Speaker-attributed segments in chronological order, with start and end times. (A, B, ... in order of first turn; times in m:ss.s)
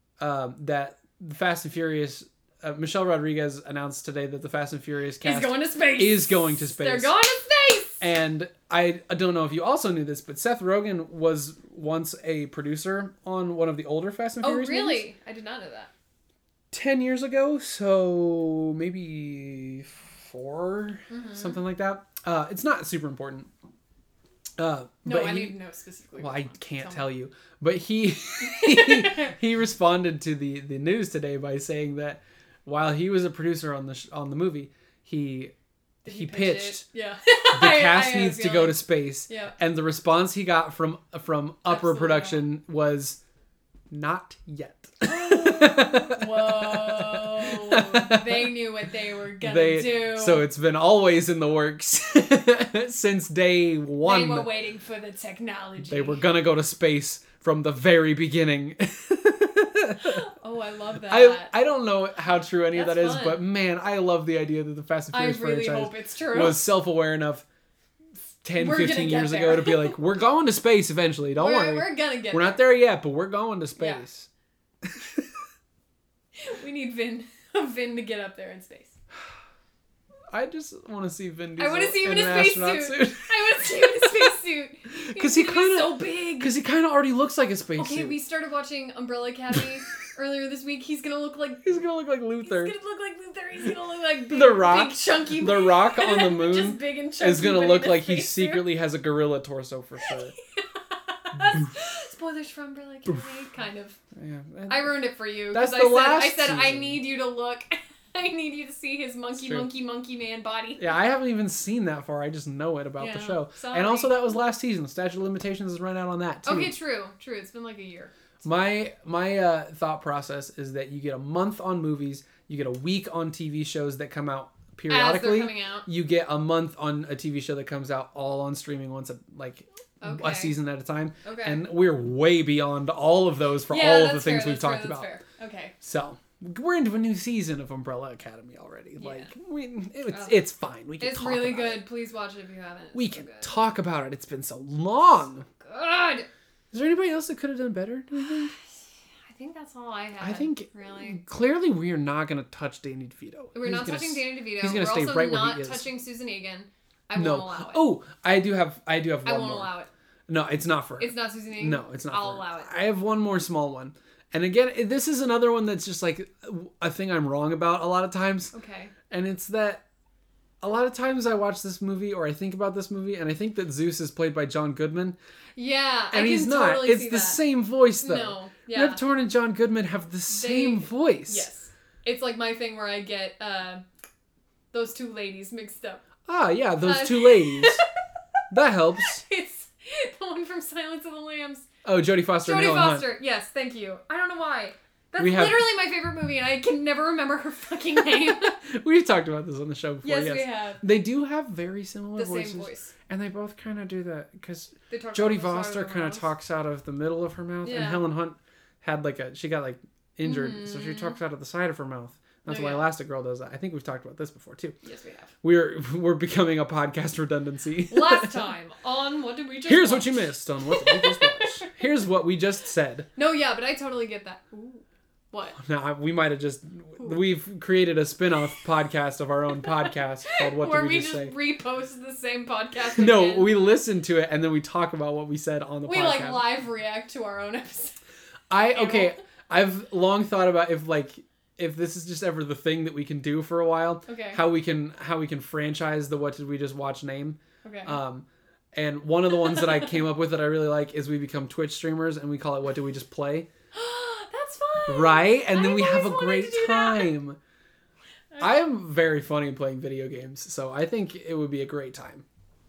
0:00.2-0:07.2 A
0:05.2-0:08.0 B
0:08.0-0:15.1 A
0:14.4-0:15.9 B
0:16.7-0:23.5 A
0:21.1-0:21.6 B
0:24.6-0:25.6 A
0:25.0-0:27.0 B
0:26.2-0:35.5 A
0:28.4-0:29.3 B
0:36.0-0:36.8 A
0:36.0-0:39.6 B
0:37.5-0:43.2 A
0:41.7-0:42.4 B
0:43.9-0:48.5 A
0:45.0-0:50.4 B
0:49.4-0:54.5 A
0:54.0-0:56.2 B
0:55.9-1:00.2 A
1:00.0-1:01.5 B
1:01.1-1:07.4 A
1:02.7-1:03.4 B
1:05.1-1:06.7 B
1:08.4-1:14.3 A
1:08.6-1:10.0 B
1:11.4-1:12.6 B
1:13.8-1:14.0 B
1:14.8-1:15.4 A
1:16.4-1:19.0 B
1:20.3-1:24.3 A
1:21.6-1:26.5 B
1:24.9-1:28.2 A
1:27.8-1:31.8 B
1:31.6-1:32.7 A
1:32.4-1:38.6 B
1:34.3-1:40.3 A
1:40.0-1:44.0 B
1:41.4-1:41.6 A
1:44.1-1:47.0 A
1:44.7-1:50.9 B
1:49.4-1:49.7 A
1:50.8-1:56.7 A
1:53.0-1:54.2 B
1:56.4-1:58.1 B
1:58.4-2:15.1 A
2:04.9-2:05.9 B
2:10.0-2:10.5 B
2:11.2-2:11.6 B
2:13.7-2:15.7 B
2:15.8-2:21.8 A
2:19.0-2:19.3 B
2:20.1-2:20.4 B
2:21.0-2:23.6 B
2:22.9-2:25.4 A
2:25.5-2:26.3 B
2:26.7-2:28.5 A
2:28.2-2:28.6 B
2:29.3-2:31.2 B
2:30.2-2:35.9 A
2:33.5-2:37.8 B
2:37.1-2:39.7 A
2:39.2-2:39.9 B
2:40.3-2:48.5 A
2:41.0-2:42.7 B
2:48.5-2:48.9 B
2:49.1-2:49.8 A
2:50.6-2:55.2 A
2:55.6-2:57.4 B
2:56.1-3:01.5 A
2:58.0-2:59.0 B
3:00.3-3:03.8 B
3:04.7-3:06.0 B
3:06.2-3:07.8 A
3:06.8-3:07.8 B
3:08.5-3:09.2 A
3:09.0-3:11.7 B
3:11.8-3:13.1 A
3:12.4-3:18.5 B
3:15.2-3:15.6 A
3:18.2-3:34.7 A
3:20.0-3:20.8 B
3:22.2-3:22.9 B
3:24.9-3:26.3 B
3:27.6-3:28.1 B
3:30.2-3:31.2 B
3:32.5-3:32.9 B
3:34.8-3:35.3 B
3:35.4-3:38.5 A
3:37.9-3:41.7 B
3:39.6-3:43.1 A
3:43.1-3:45.6 B
3:45.5-3:51.4 A
3:49.6-3:53.5 B
3:52.9-3:56.5 A
3:55.8-3:58.0 B
3:58.5-4:13.5 A
3:58.6-3:59.2 B
4:04.1-4:04.4 B
4:07.6-4:08.0 B
4:09.4-4:09.9 B
4:13.7-4:17.1 B
4:14.9-4:17.4 A
4:18.3-4:18.6 B
4:18.4-4:22.2 A